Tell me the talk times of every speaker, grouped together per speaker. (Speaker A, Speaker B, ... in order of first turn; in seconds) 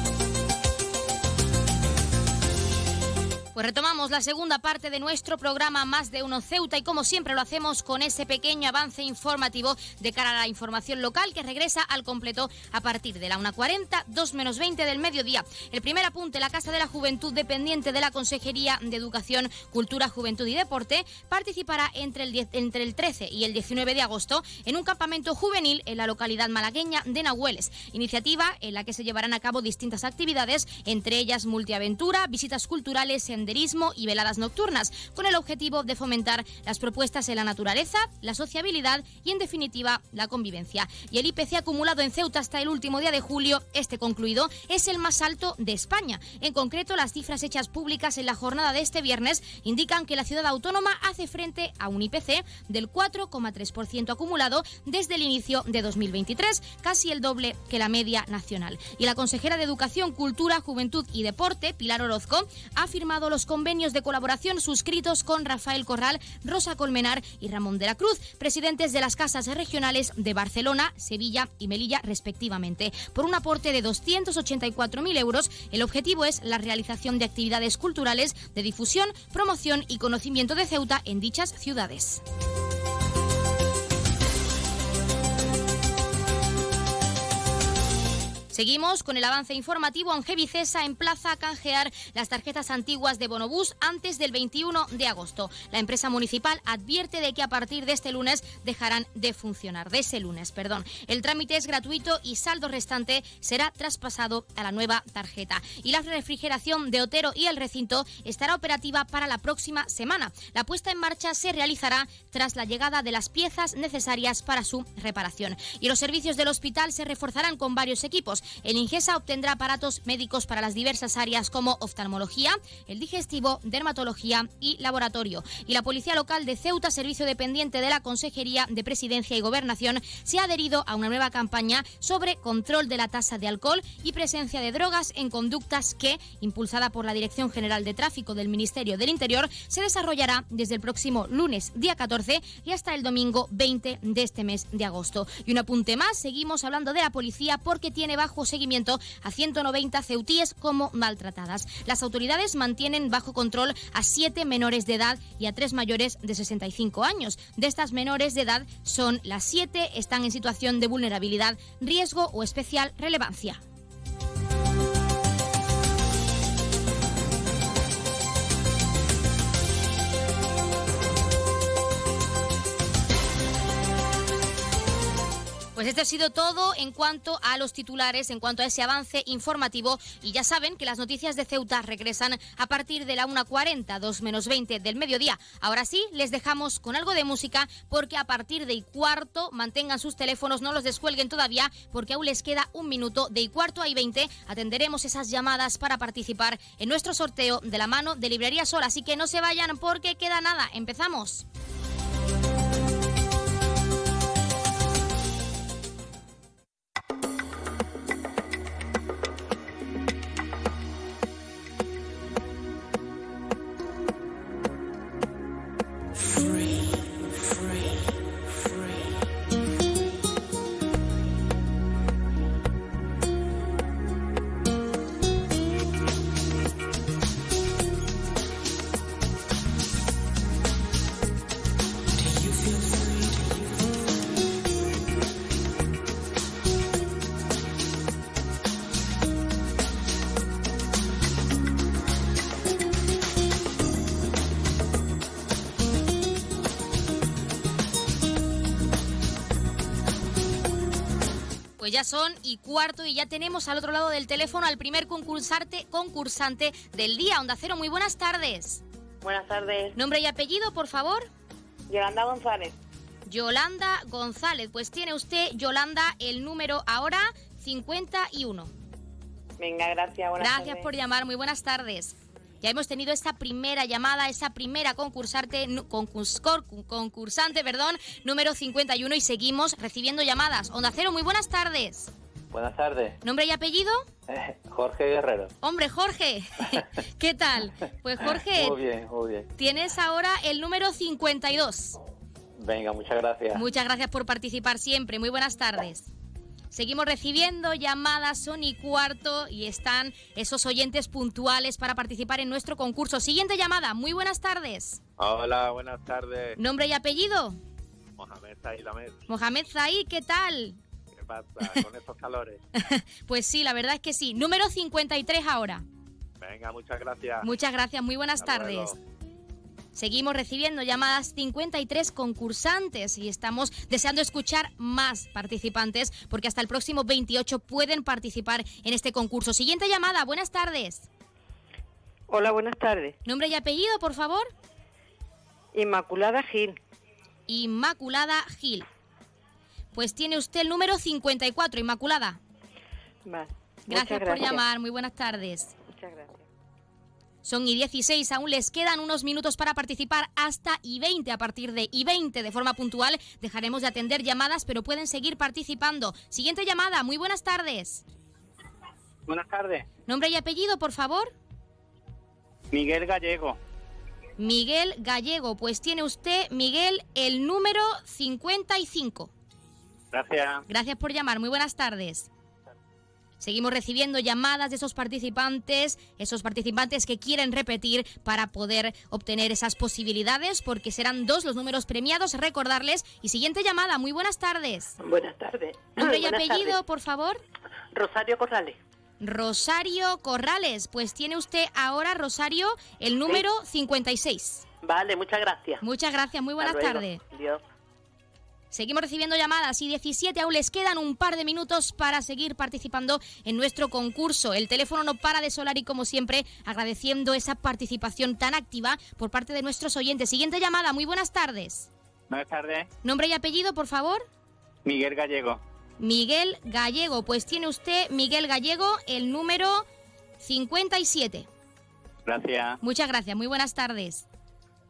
Speaker A: 3.5-82.2, 88.5-163.6, 175.8-201.4, 251.8-258.8, 259.9-261.3, 263.3-268.7, 270.4-282.1, 283.2-284.0, 285.6-288.8, 289.6-292.0, 293.5-296.1, 296.7-305.0, 306.6-307.6, 309.3-310.8, 312.8-315.8, 317.4-318.9, 320.0-331.1, 333.2-334.5, 337.5-338.9, 339.9-342.4, 343.9-345.7, 347.4-358.0, 360.1-361.3, 364.4-369.3, 370.7-372.3, 373.4-384.9, 386.0-387.4, 389.2-394.6, 395.8-397.2, 398.7-411.9, 413.0-414.2, 416.0-419.9, 420.4-421.5, 422.8-424.2
Speaker B: 259.3-259.9, 332.3-333.2, 335.7-336.8, 343.3-344.6, 345.9-346.4
Speaker C: 282.6-283.1, 284.8-285.5, 288.8-289.4, 292.7-293.6, 305.2-306.5, 308.2-309.1, 311.2-312.6, 316.4-317.4, 318.4-318.9, 359.3-359.8, 362.7-363.6, 370.1-370.6, 412.3-412.9, 414.9-415.6, 422.3-422.7